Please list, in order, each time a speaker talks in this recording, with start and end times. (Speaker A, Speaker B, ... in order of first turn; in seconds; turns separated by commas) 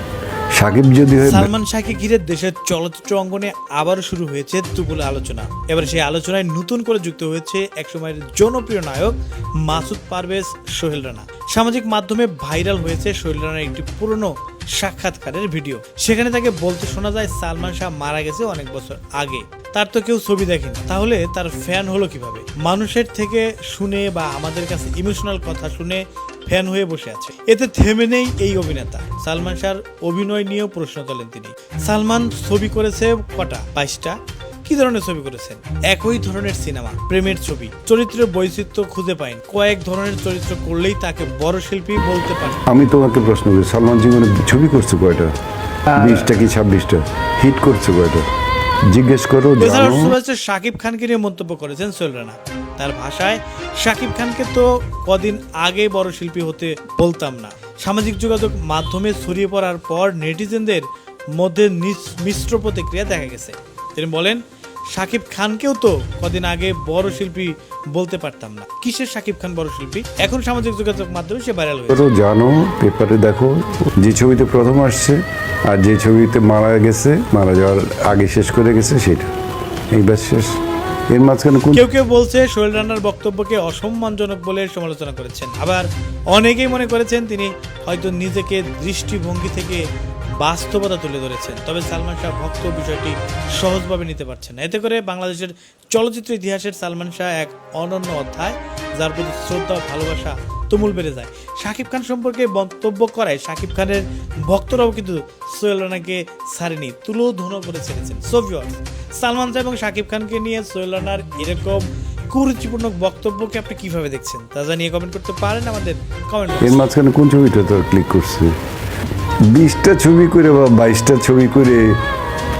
Speaker A: 0.6-1.5, Speaker B: 1.2-42.6, Speaker A: 42.7-45.3, Speaker A: 45.9-48.2, Speaker A: 48.9-50.1, Speaker B: 49.6-72.0, Speaker A: 71.9-79.3, Speaker A: 79.9-80.5, Speaker A: 81.1-81.8, Speaker B: 81.7-89.8, Speaker B: 90.4-116.9, Speaker A: 116.6-118.5, Speaker A: 119.5-121.9